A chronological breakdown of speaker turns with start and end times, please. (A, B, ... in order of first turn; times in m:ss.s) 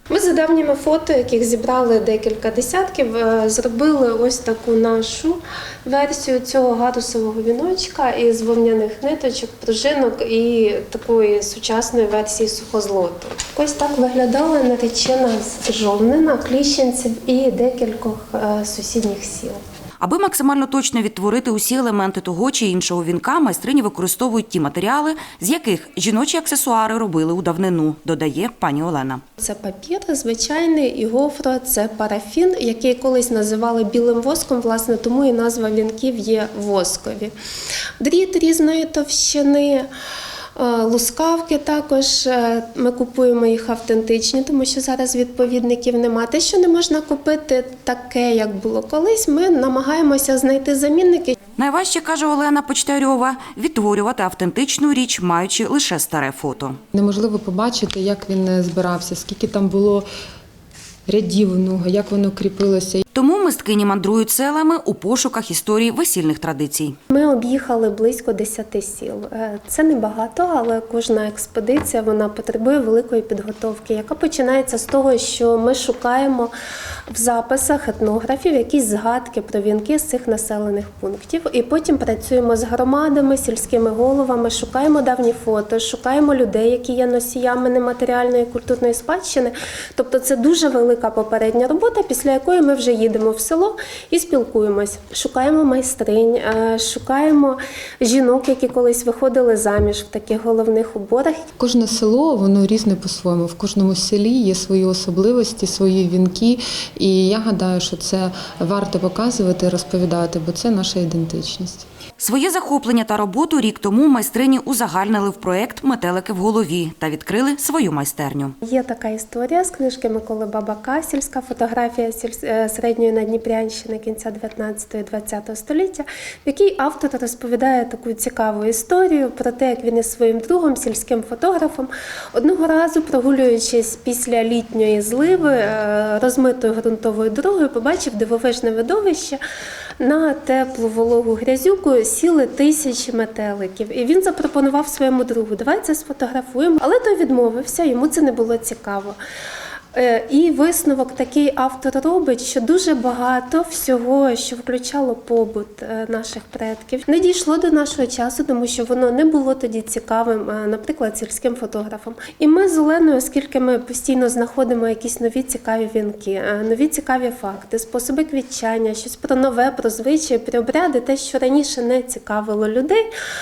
0:00.1-0:19.6 A
0:20.0-0:29.2 B
0:29.4-0:37.3 A
0:38.0-0:39.9 A
0:40.6-0:51.4 A
0:51.6-0:56.8 B
0:56.9-1:00.1 C
1:01.1-1:03.0 C
1:03.2-1:07.0 B
1:07.1-1:16.5 A
1:17.1-1:41.4 A
1:41.6-1:51.9 C
1:52.2-1:58.6 B
1:58.6-2:19.4 A
2:20.0-2:29.2 A
2:29.9-2:53.0 A